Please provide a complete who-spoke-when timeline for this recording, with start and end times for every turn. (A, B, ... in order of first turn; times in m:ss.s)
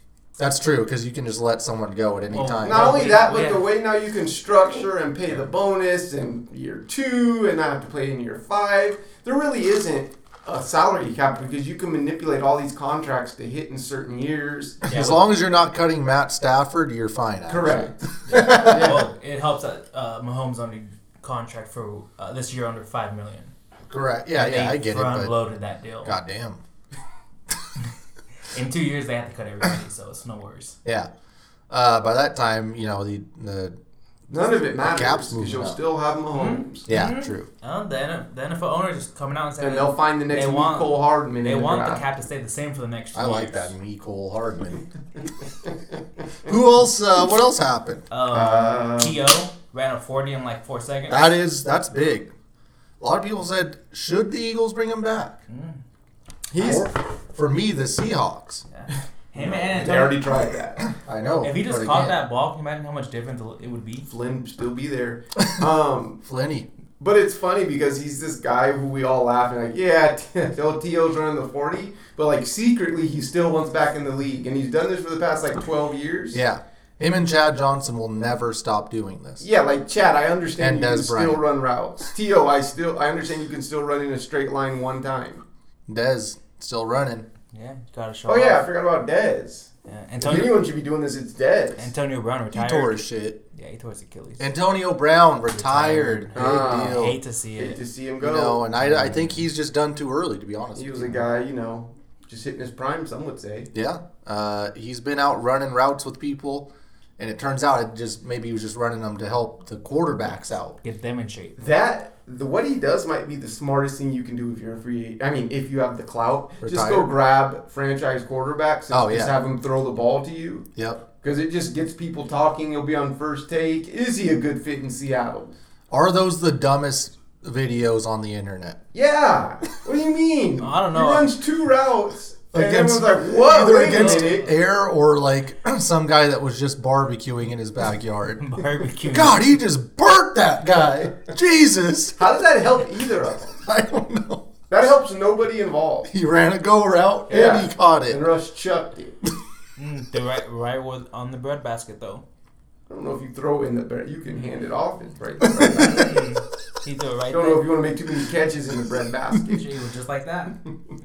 0:00.4-0:03.0 A
0:02.3-0:03.7 B
0:02.6-0:14.9 C
0:14.9-0:19.0 A
0:14.9-0:15.2 B
0:17.5-0:19.1 C
0:18.3-0:23.5 B
0:23.9-0:25.4 A
0:24.4-0:26.2 B
0:26.0-0:26.6 A
0:28.4-0:30.8 B
0:30.8-0:31.1 A
0:31.7-0:33.8 A
0:34.3-0:36.8 C
0:34.8-0:35.8 A
0:36.3-0:43.7 B
0:36.9-0:37.5 A
0:39.6-0:42.0 C
0:43.1-0:44.9 A
0:46.4-0:48.0 A
0:48.1-0:51.4 B
0:48.3-0:49.2 C
0:51.1-0:52.3 A
0:53.0-0:55.4 A
0:55.5-0:55.8 B
0:56.5-0:56.9 C
0:56.6-0:58.6 A
0:58.7-1:00.4 B
0:59.4-1:00.8 C
1:01.0-1:02.2 A
1:01.4-1:04.1 B
1:04.1-1:06.2 C
1:06.2-1:06.7 A
1:07.0-1:16.4 C
1:16.3-1:19.4 A
1:19.4-1:25.4 C
1:20.6-1:21.4 A
1:25.9-1:27.3 A
1:27.5-1:28.7 B
1:28.3-1:31.8 C
1:29.9-1:30.6 B
1:31.8-1:34.5 B
1:32.5-1:33.4 A
1:34.4-1:37.2 A
1:35.5-1:37.8 B
1:36.3-1:38.6 C
1:38.2-1:41.2 A
1:38.8-1:39.4 B
1:40.8-1:43.7 C
1:43.7-1:50.8 A
1:50.8-1:51.6 B
1:51.6-2:00.7 C
1:56.6-1:57.1 A
1:58.9-1:59.4 A
2:00.8-2:01.0 A
2:01.2-2:05.5 C
2:05.9-2:08.8 A
2:08.9-2:14.5 C
2:10.6-2:11.3 B
2:12.5-2:18.4 A
2:13.8-2:14.5 B
2:18.4-2:19.5 B
2:19.1-2:22.2 A
2:22.2-2:23.6 C
2:23.6-2:24.5 A
2:24.7-2:26.1 C
2:26.1-2:28.2 A
2:27.3-2:29.2 C
2:29.8-2:32.2 B
2:32.9-2:36.2 C
2:35.6-2:37.8 B
2:35.6-2:36.0 A
2:37.3-2:39.7 C
2:39.4-2:40.6 B